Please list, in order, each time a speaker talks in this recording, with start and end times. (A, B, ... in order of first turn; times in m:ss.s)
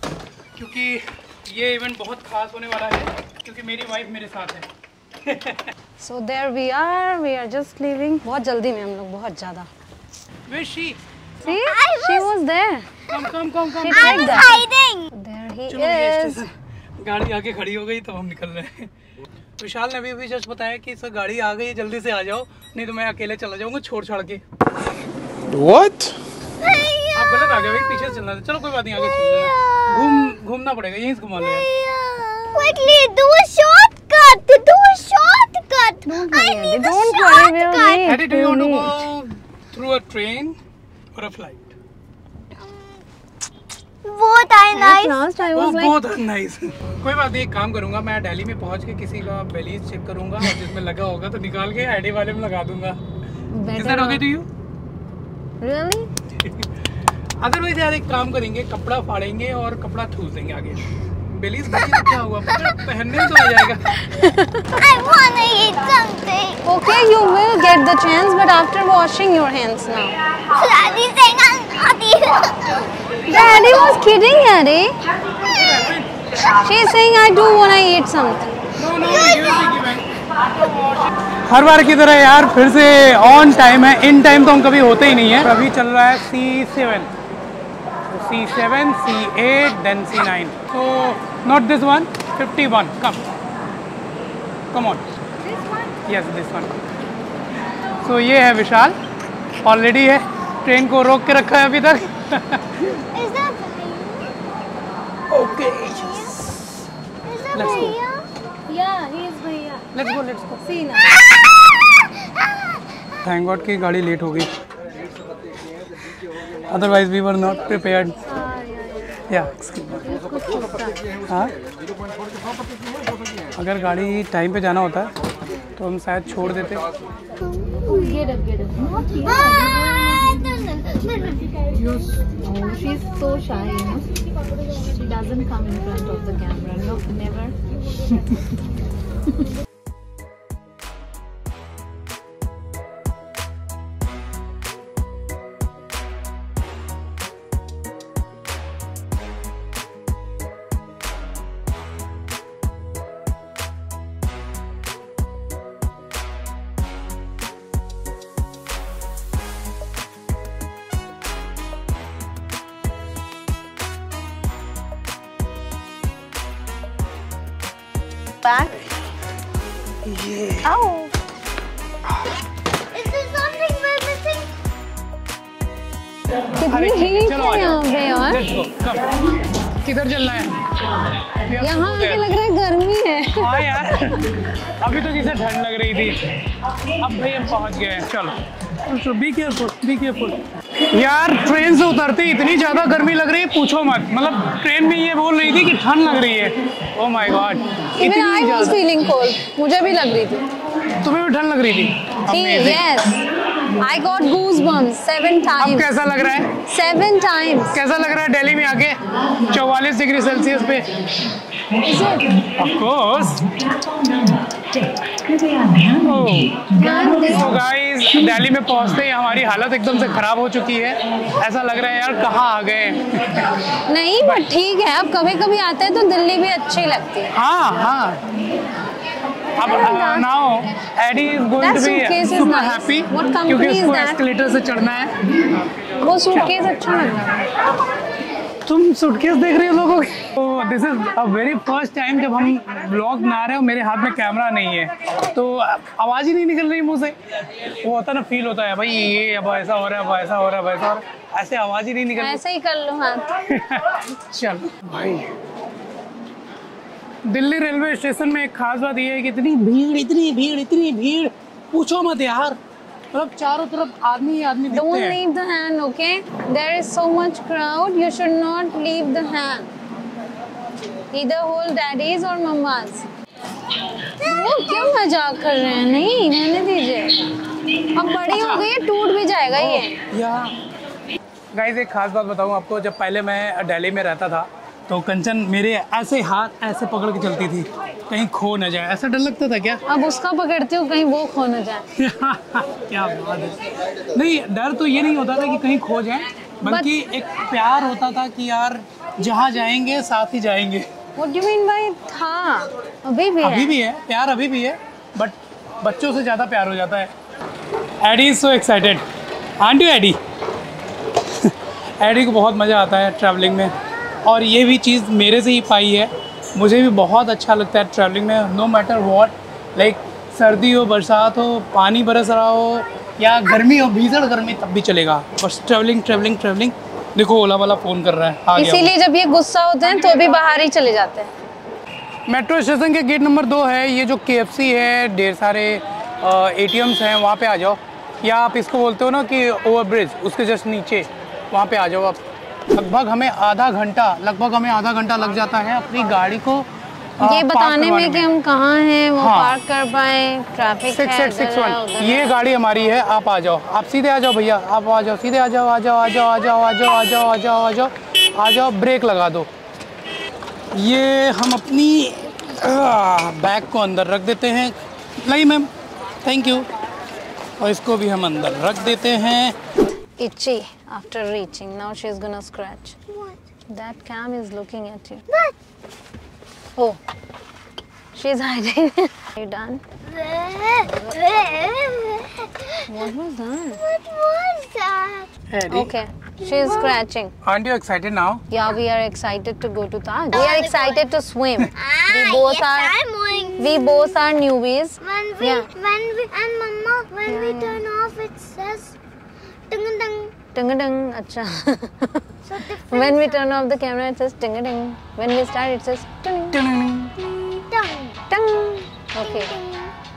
0:00.6-0:04.7 A
0:05.2-0:05.7 A
0:06.0-0:09.7 B
0:10.5-0:11.0 A
0:11.4-0:13.0 B
0:11.5-0:12.3 C
0:13.1-0:14.6 A
0:13.8-0:14.6 B
0:13.9-0:15.1 C
0:15.1-0:16.4 B
0:15.7-0:18.9 A
0:19.6-0:24.4 A
0:25.6-0:26.0 A
0:26.6-0:27.8 C
0:27.1-0:31.7 A
0:29.2-0:30.1 C
0:31.5-0:38.1 C
0:36.1-0:39.0 B
0:38.0-0:40.6 A
0:41.2-0:41.8 A
0:44.0-0:45.2 C
0:44.7-0:46.0 B
0:45.5-0:53.0 A
0:53.5-0:54.2 B
0:53.7-0:54.5 A
0:55.6-0:56.1 B
0:56.4-0:56.7 A
0:57.4-1:04.0 A
1:04.0-1:04.8 B
1:04.8-1:06.6 C
1:06.6-1:10.2 B
1:10.5-1:14.0 C
1:13.3-1:15.0 B
1:15.3-1:16.1 A
1:16.4-1:18.5 B
1:18.8-1:27.1 A
1:28.1-1:33.3 A
1:34.7-1:35.0 A
1:36.1-1:36.8 A
1:37.9-1:39.0 A
1:39.6-1:43.0 A
1:43.1-1:44.3 C
1:45.3-1:46.6 A
1:47.2-1:48.3 C
1:47.5-1:48.0 A
1:48.7-1:49.9 B
1:49.9-1:50.7 A
1:50.6-1:51.2 B
1:53.2-1:54.5 A
1:56.7-1:58.2 A
1:58.3-1:59.2 B
1:59.3-2:00.1 A
2:00.0-2:01.0 B
2:01.3-2:01.5 A
2:03.6-2:05.1 A
2:05.8-2:06.8 A
2:07.4-2:07.8 C
2:07.8-2:10.5 B
2:09.3-2:09.6 C
2:10.4-2:11.4 C
2:11.8-2:14.1 B
2:14.8-2:17.6 B
2:48.4-2:48.8 B
2:50.0-2:50.8 A
2:50.7-2:51.1 B
2:52.9-2:54.5 C
2:56.6-2:58.4 B
2:56.7-3:00.6 A
3:01.3-3:02.3 A
3:01.6-3:04.1 B
3:03.4-3:06.2 A
3:07.0-3:18.8 A
3:18.0-3:20.4 B
3:21.0-3:22.9 A
3:22.3-3:25.9 B
3:25.6-3:26.6 A
3:26.6-3:27.8 B
3:27.7-3:30.9 A
3:31.8-3:32.4 B
3:32.4-3:43.5 A
3:36.7-3:37.6 B
3:43.9-3:47.4 B
3:44.2-3:44.5 A
3:47.3-3:48.2 A
3:49.6-3:55.2 A
3:49.6-3:50.5 B
3:51.6-3:54.2 B
3:56.0-3:57.5 B
3:56.3-3:56.6 A
3:58.6-4:12.4 A
4:12.2-4:13.3 B
4:13.5-4:15.3 A
4:17.3-4:22.6 A
4:23.1-4:25.2 A
4:24.7-4:29.7 B
4:31.1-4:33.1 B
4:34.2-4:37.2 B
4:37.9-4:40.0 B
4:38.3-4:38.7 A
4:39.5-4:40.6 A
4:41.5-4:49.8 A
4:49.9-4:51.8 B
4:52.0-4:53.6 A
4:54.1-5:00.9 A
4:56.6-4:56.9 B
5:01.2-5:03.8 B
5:03.4-5:07.1 A
5:08.0-5:09.0 A
5:09.6-5:10.2 A
5:11.2-5:13.7 A
5:14.2-5:28.9 A
5:28.6-5:31.3 B
5:32.3-5:42.2 A
5:42.7-5:48.3 A
5:47.2-5:52.3 B
5:49.2-5:49.6 A
5:50.9-5:59.5 A
6:00.7-6:05.7 A
6:06.2-6:06.7 A
6:07.6-6:09.6 A
6:10.2-6:13.0 B
6:13.1-6:13.4 C
6:13.7-6:15.2 B
6:15.3-6:15.6 C
6:18.1-6:19.8 B
6:20.1-6:22.8 C
6:22.9-6:23.8 B
6:23.8-6:25.3 C
6:25.5-6:25.9 A
6:25.7-6:27.3 B
6:26.4-6:27.0 C
6:27.4-6:28.4 A
6:28.5-6:33.0 B
6:30.3-6:31.0 C
6:31.8-6:33.9 C
6:33.6-6:35.7 B
6:35.0-6:39.0 C
6:37.3-6:37.8 B
6:39.7-6:40.4 C
6:40.5-6:42.2 B
6:42.4-6:43.4 C
6:42.9-6:46.6 B
6:46.5-6:47.2 A
6:47.2-6:48.2 C
6:48.3-6:49.5 B
6:49.2-6:49.9 C